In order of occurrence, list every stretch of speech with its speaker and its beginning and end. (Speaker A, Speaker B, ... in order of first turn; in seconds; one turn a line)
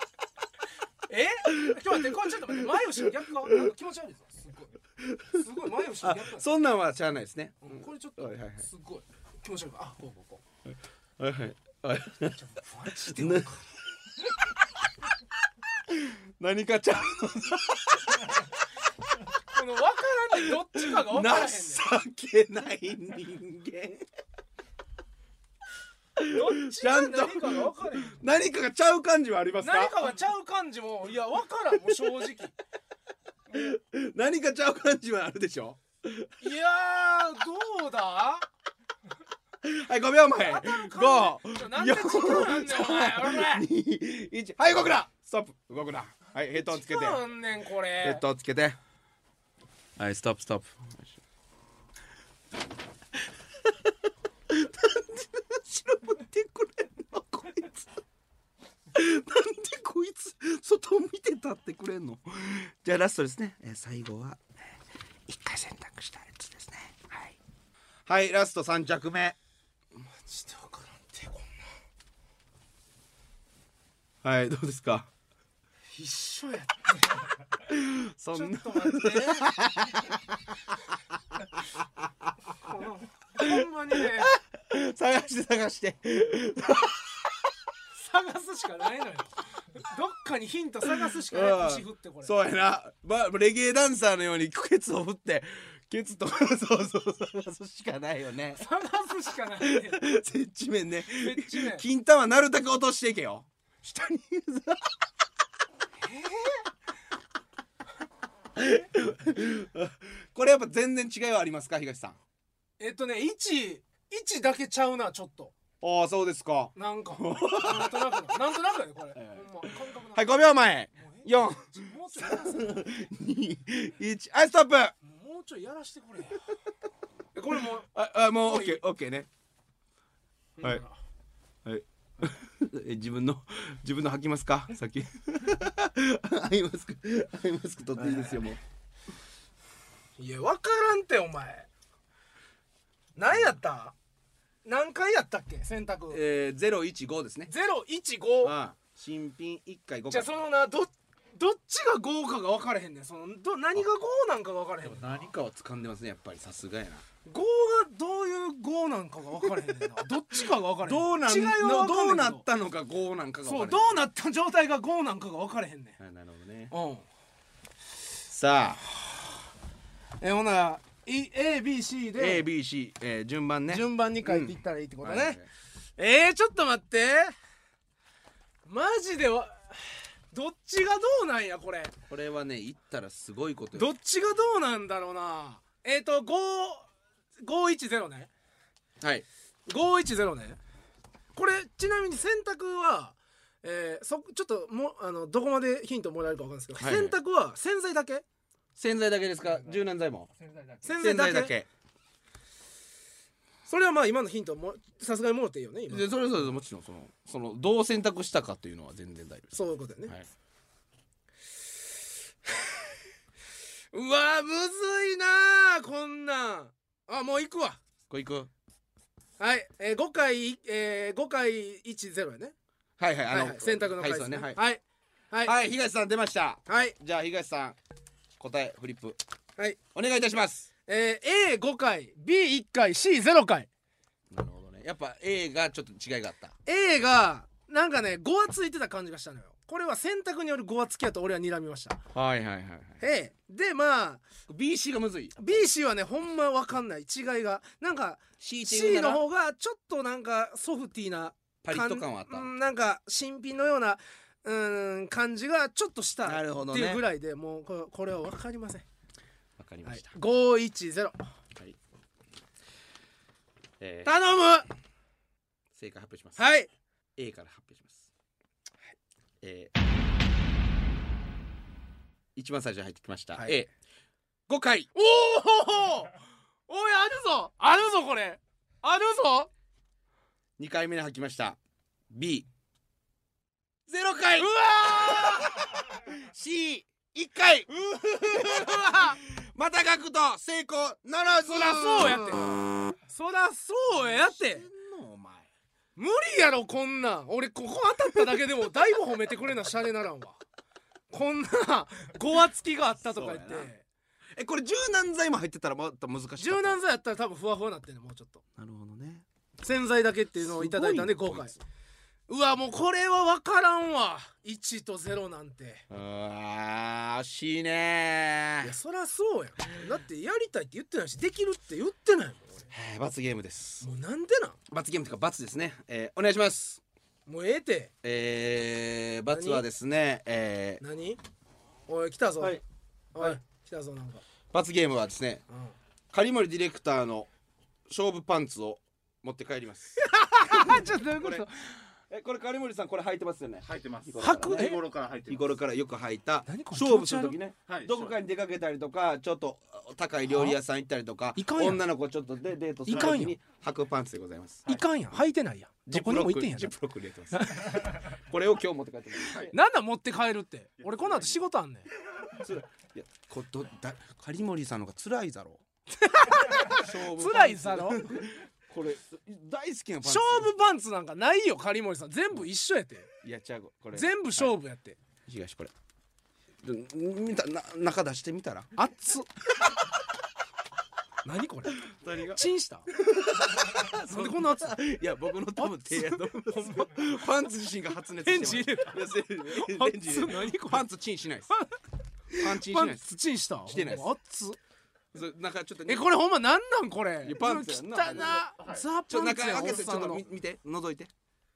Speaker A: 1.1-4.8
Speaker B: 1.5-3.5
Speaker B: 5.0-5.4
Speaker A: 5.3-6.5
Speaker B: 6.0-8.7
Speaker A: 7.6-10.4
Speaker B: 10.7-12.4
Speaker A: 12.3-13.7
Speaker B: 13.1-13.5
Speaker B: 15.9-18.5
Speaker A: 19.5-21.9
Speaker B: 20.5-24.1
Speaker B: 26.2-30.1
Speaker A: 26.3-28.2
Speaker A: 29.6-32.5
Speaker B: 33.5-36.3
Speaker A: 36.4-38.5
Speaker B: 39.6-47.2
Speaker A: 40.4-43.7
Speaker A: 46.6-48.2
Speaker B: 48.0-48.8
Speaker B: 50.0-51.2
Speaker B: 54.5-57.9
Speaker B: 58.9-64.8
Speaker B: 65.3-67.4
Speaker B: 68.1-69.4
Speaker A: 70.2-71.7
Speaker B: 74.2-75.1
Speaker A: 76.0-77.2
Speaker B: 77.7-80.4
Speaker A: 78.3-79.5
Speaker B: 81.6-81.8
Speaker A: 82.7-84.3
Speaker B: 83.4-87.5
Speaker A: 87.9-92.3
Speaker B: 91.0-98.6
Speaker A: 98.6-100.0
Speaker B: 99.6-104.9
Speaker A: 101.1-101.8
Speaker A: 106.0-106.7
Speaker B: 108.6-112.2
Speaker A: 112.8-115.5
Speaker B: 115.8-118.2
Speaker A: 116.8-120.4
Speaker B: 119.2-125.0
Speaker A: 121.0-122.9
Speaker A: 125.0-126.5
Speaker A: 127.3-127.9
Speaker B: 127.9-129.3
Speaker A: 128.4-128.8
Speaker A: 130.6-131.0
Speaker B: 131.7-138.6
Speaker A: 138.0-138.5
Speaker A: 140.2-141.7
Speaker A: 143.2-143.9
Speaker A: 144.6-146.2
Speaker B: 146.1-147.5
Speaker A: 147.5-148.6
Speaker B: 148.4-150.3
Speaker A: 150.1-155.3
Speaker B: 154.8-157.0
Speaker A: 157.3-162.4
Speaker B: 160.8-164.0
Speaker A: 163.4-166.0
Speaker B: 166.0-166.7
Speaker A: 166.7-167.1
Speaker B: 168.3-168.8
Speaker A: 170.2-172.4
Speaker B: 172.2-175.5
Speaker A: 173.7-175.4
Speaker A: 176.0-177.3
Speaker A: 178.7-181.9
Speaker B: 182.1-183.9
Speaker A: 183.7-186.9
Speaker A: 187.4-188.3
Speaker A: 189.7-190.6
Speaker A: 191.3-198.2
Speaker B: 196.8-197.2
Speaker B: 198.8-200.3
Speaker A: 200.8-201.5
Speaker B: 201.0-201.7
Speaker A: 203.7-206.2
Speaker B: 205.9-209.5
Speaker A: 209.5-210.2
Speaker A: 213.9-217.8
Speaker B: 218.1-218.5
Speaker A: 219.4-222.5
Speaker B: 223.0-224.6
Speaker A: 223.3-225.5
Speaker B: 225.4-227.8
Speaker A: 226.7-226.9
Speaker B: 228.4-229.2
Speaker B: 229.9-230.7
Speaker A: 230.9-233.7
Speaker B: 234.3-236.6
Speaker A: 236.7-242.0
Speaker B: 242.1-243.0
Speaker A: 243.0-244.2
Speaker B: 244.5-245.6
Speaker A: 245.4-258.9
Speaker B: 248.4-249.2
Speaker B: 251.6-252.5
Speaker B: 256.3-257.0
Speaker B: 259.6-260.1
Speaker A: 259.9-261.2
Speaker B: 263.8-264.1
Speaker A: 264.0-264.7
Speaker B: 265.7-266.4
Speaker A: 266.4-266.7
Speaker B: 267.2-268.1
Speaker B: 269.4-269.8
Speaker B: 272.4-273.7
Speaker B: 274.5-274.9
Speaker A: 274.9-276.1
Speaker A: 276.7-279.5
Speaker B: 280.6-281.6
Speaker B: 282.1-282.5
Speaker B: 283.9-292.8
Speaker A: 284.4-285.8
Speaker A: 287.9-289.2
Speaker A: 291.4-294.7
Speaker B: 293.9-295.5
Speaker A: 295.9-300.4
Speaker A: 301.1-303.9
Speaker B: 303.1-303.7
Speaker B: 304.4-306.8
Speaker A: 306.4-308.4
Speaker B: 308.6-309.3
Speaker A: 309.6-311.6
Speaker B: 310.4-311.6
Speaker A: 312.3-315.9
Speaker B: 315.9-318.8
Speaker A: 318.6-322.7
Speaker B: 322.7-323.9
Speaker A: 323.8-324.6
Speaker B: 324.7-326.8
Speaker A: 327.3-327.9
Speaker B: 328.0-330.8
Speaker A: 329.3-329.6
Speaker A: 330.8-331.2
Speaker A: 331.9-332.6
Speaker A: 333.1-334.2
Speaker B: 334.5-335.4
Speaker A: 335.5-335.7
Speaker B: 336.1-337.3
Speaker B: 337.9-344.7
Speaker A: 340.0-341.5
Speaker C: 343.6-345.6
Speaker A: 344.2-344.8
Speaker B: 345.3-354.8
Speaker A: 346.4-347.4
Speaker C: 347.7-348.2
Speaker A: 350.3-350.6
Speaker A: 351.4-351.8
Speaker A: 352.8-353.4
Speaker A: 354.7-356.7
Speaker B: 355.9-359.5
Speaker A: 357.3-358.0
Speaker A: 359.5-361.9
Speaker B: 362.3-365.6
Speaker A: 365.9-368.1
Speaker B: 366.7-370.5
Speaker A: 370.0-373.1
Speaker B: 373.2-374.5
Speaker A: 373.9-375.0
Speaker B: 375.3-375.7
Speaker B: 376.6-378.7
Speaker A: 378.8-379.3
Speaker A: 381.2-382.9
Speaker B: 381.8-391.5
Speaker A: 384.1-384.8
Speaker A: 385.6-387.1
Speaker A: 388.2-390.9
Speaker A: 391.5-391.8
Speaker A: 392.3-394.6
Speaker B: 392.3-393.1
Speaker B: 393.7-394.1
Speaker B: 395.1-396.1
Speaker A: 395.9-400.3
Speaker B: 397.2-401.1